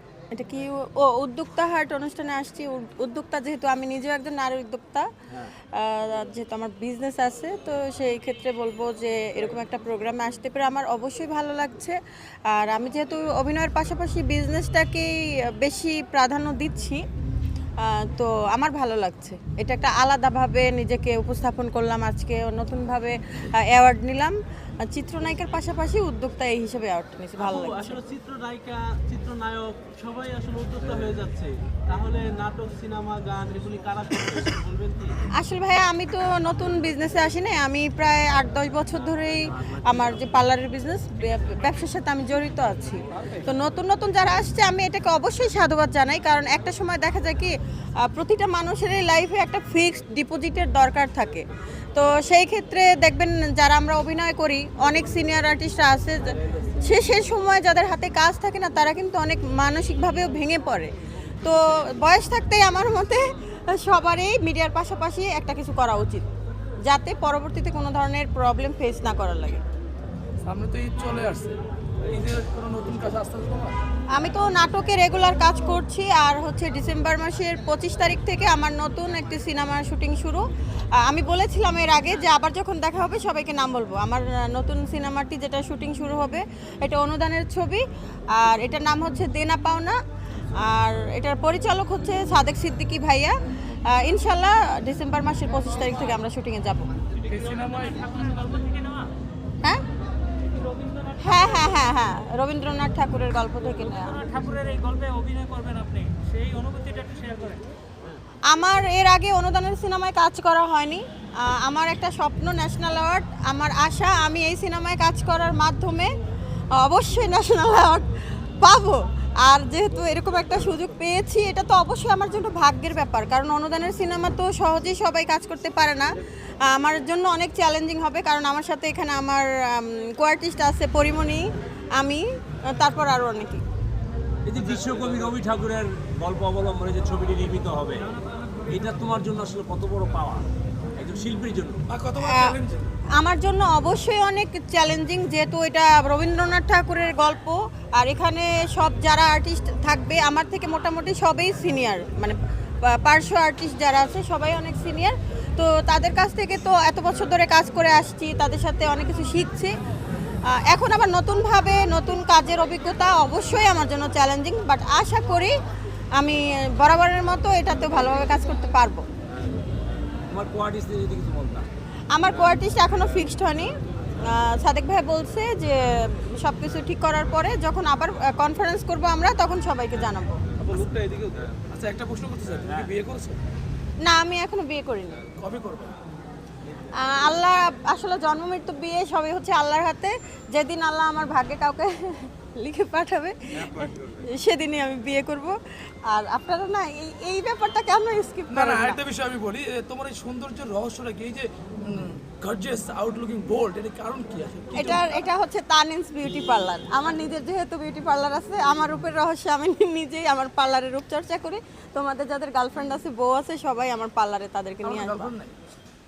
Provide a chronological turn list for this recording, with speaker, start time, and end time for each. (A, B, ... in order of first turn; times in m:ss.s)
0:00.3-0:05.1 A
0:05.7-0:12.0 A
0:12.5-0:17.0 A
0:17.8-0:28.0 A
0:27.4-0:35.2 B
0:35.3-1:06.3 A
1:06.8-1:09.6 A
1:10.4-1:13.8 C
1:14.1-1:30.0 A
1:30.6-1:36.9 A
1:37.3-1:37.9 C
1:37.3-1:39.1 D
1:40.6-1:41.7 D
1:41.2-1:44.2 A
1:43.8-1:47.6 D
1:48.5-1:56.1 A
1:56.7-2:13.6 A
2:14.4-2:18.1 E
2:18.7-2:21.8 E
2:21.9-2:22.9 C
2:22.2-2:22.6 A
2:23.2-2:39.7 A
2:40.5-2:45.5 A
2:46.2-2:49.0 A
2:50.3-2:51.7 E
2:52.1-3:00.4 A
3:00.6-3:03.4 C
3:02.6-3:02.9 E
3:04.0-3:05.2 A
3:05.4-3:06.0 C
3:06.9-3:15.6 A
3:16.1-3:19.0 A
3:18.5-3:25.2 C
3:24.7-3:35.3 A
3:34.8-3:35.5 C